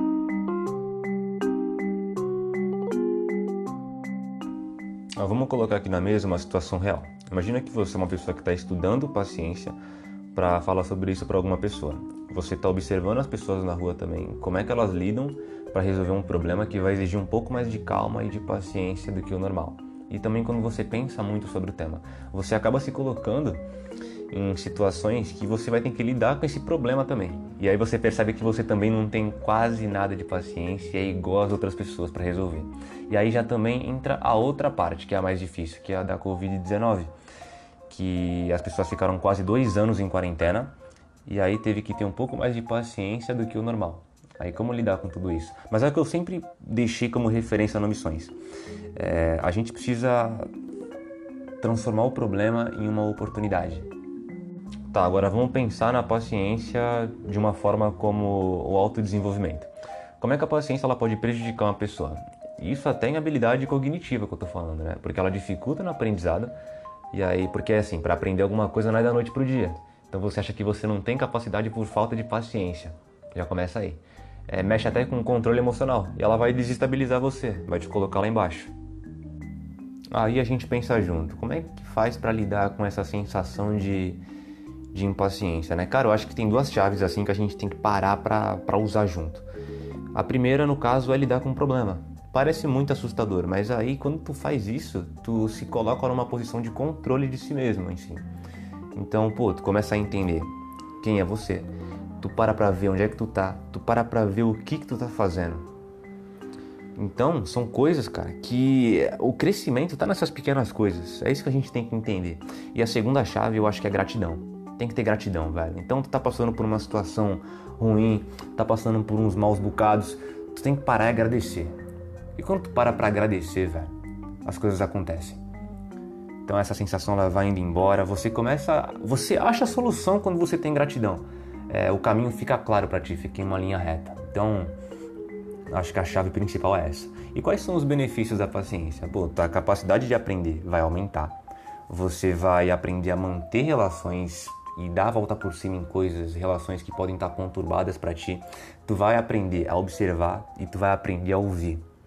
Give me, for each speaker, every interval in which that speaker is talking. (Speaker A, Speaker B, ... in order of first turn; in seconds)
Speaker A: 5.2-9.8, 10.3-23.6, 24.3-37.1, 37.9-40.7, 41.3-48.3, 49.0-50.5, 51.6-53.9, 54.9-66.5, 67.1-78.7, 80.1-84.2, 84.9-89.5, 90.1-98.2, 98.9-105.7, 107.0-121.8, 122.3-123.9, 124.4-125.4, 126.5-134.7, 135.7-141.4, 141.9-151.8